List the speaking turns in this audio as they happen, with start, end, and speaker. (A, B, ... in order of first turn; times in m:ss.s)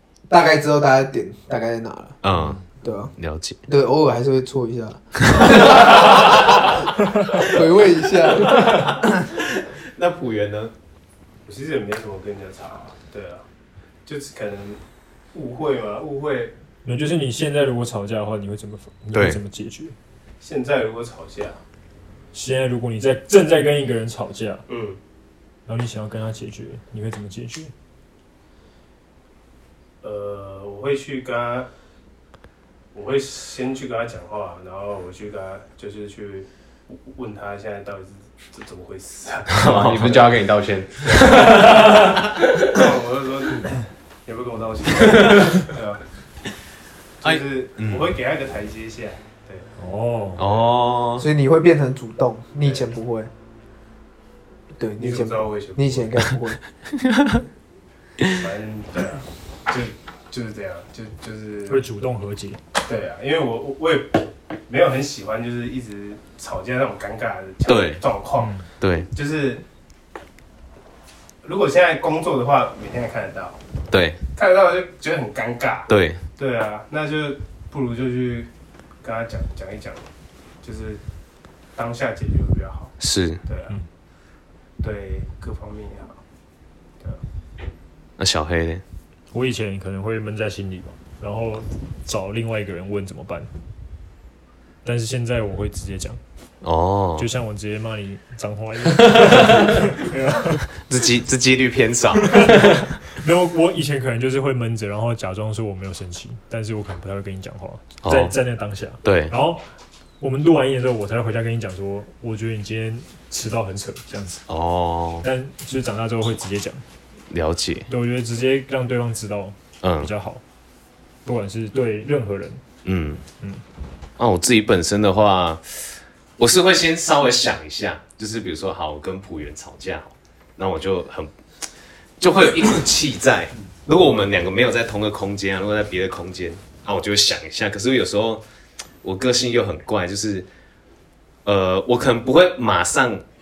0:00.3-0:02.2 A
0:02.2-0:02.6 B
0:02.8-0:03.1 A
0:03.2-0:03.6 B
0:03.7-0:06.5 A
0:05.3-0:06.2 B
0:07.3-0:09.0 A
0:08.4-0:10.7 B
0:11.4-0:13.4 C
0:14.1-0:14.8 C
0:15.3-0:16.5 C
0:16.8-0:20.0 D
0:19.1-0:19.4 B
0:20.4-0:21.6 C
0:22.3-0:24.6 D
0:24.7-0:25.0 C
0:25.7-0:27.7 D
0:30.0-0:31.7 C
0:32.9-0:40.2 C
0:39.5-0:40.3 B
0:39.6-0:42.4 E
0:41.0-0:46.0 C
0:47.2-0:49.7 C
0:47.2-0:48.1 B
0:49.8-0:50.4 D
0:50.4-0:51.3 B
0:50.4-0:50.7 C
0:51.2-0:53.3 A
0:54.8-0:56.6 A
0:55.0-0:56.1 C
0:57.0-0:57.4 B
0:58.4-1:01.8 C
1:01.7-1:02.6 D
1:02.8-1:08.6 C
1:07.7-1:08.0 B
1:08.4-1:08.7 D
1:08.8-1:09.1 B
1:09.1-1:09.6 C
1:11.4-1:13.6 C
1:13.9-1:14.2 B
1:14.4-1:18.5 C
1:15.9-1:16.2 B
1:19.0-1:20.0 C
1:20.6-1:21.0 C
1:21.8-1:22.9 C
1:23.0-1:23.4 B
1:23.5-1:23.8 C
1:24.8-1:26.2 C
1:28.2-1:28.8 B
1:29.3-1:33.5 D
1:34.8-1:36.2 D
1:36.6-1:37.3 B
1:37.2-1:40.7 D
1:40.8-1:42.7 B
1:42.2-1:49.6 D
1:48.0-1:48.4 B
1:49.0-1:49.3 B
1:50.2-1:54.4 D
1:54.5-1:55.3 B
1:55.2-1:56.8 D
1:57.3-1:57.9 B
1:57.9-2:00.4 D
1:59.8-2:00.1 B
2:01.2-2:02.6 D
2:02.8-2:03.2 B
2:04.2-2:11.4 B
2:12.2-2:18.4 B
2:19.0-2:20.5 B
2:21.4-2:23.2 B